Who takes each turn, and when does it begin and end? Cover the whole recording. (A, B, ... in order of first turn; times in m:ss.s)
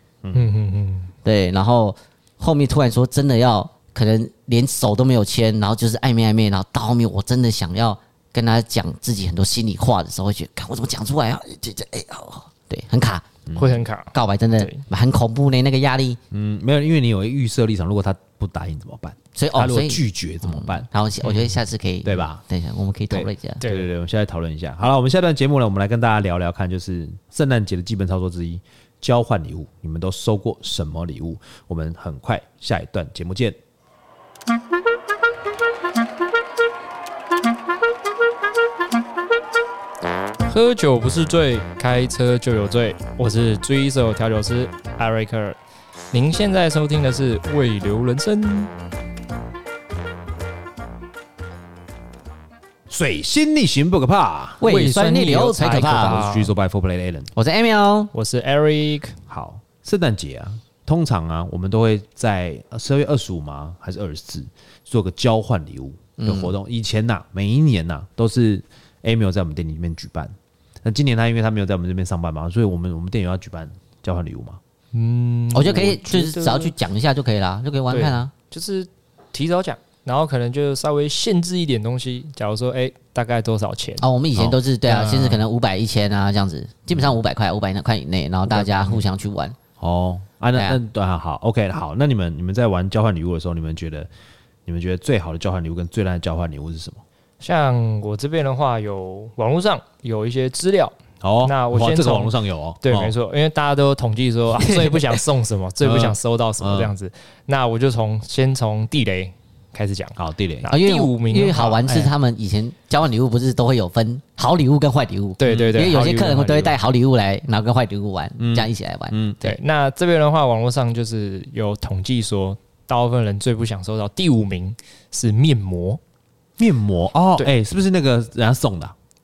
0:00.2-0:00.5 A
0:00.3-0:01.1 B
0:01.2-0:13.3 C
0:13.5-0:13.8 A
0:13.6-0:14.8 B
0:14.1-0:16.2 C
0:16.3-0:20.9 A
0:19.4-0:23.6 C
0:22.0-0:22.4 A
0:23.1-0:33.6 A
0:23.6-0:23.9 B
0:40.5-0:45.6 B
0:46.1-0:48.7 B
0:52.9-0:54.6 A
0:54.6-0:56.2 C
0:54.6-0:56.5 B
0:55.8-0:57.3 A
0:57.4-0:58.1 C
0:58.1-0:59.2 B
0:59.3-1:14.6 A
1:06.2-1:06.5 C
1:14.9-1:16.7 B
1:15.5-1:18.3 C
1:17.9-1:24.1 B
1:24.0-1:29.6 C
1:24.8-1:25.4 B
1:28.5-1:29.0 B
1:29.8-1:34.1 A
1:34.6-1:37.0 A
1:37.4-1:52.1 B
1:41.2-1:43.1 A
1:45.8-1:46.9 A
1:50.2-1:50.7 A
1:50.7-1:59.2 C
1:55.4-1:56.8 B
1:55.5-1:55.8 A
1:58.4-1:59.5 A
1:59.4-2:06.0 B
2:06.6-2:09.0 A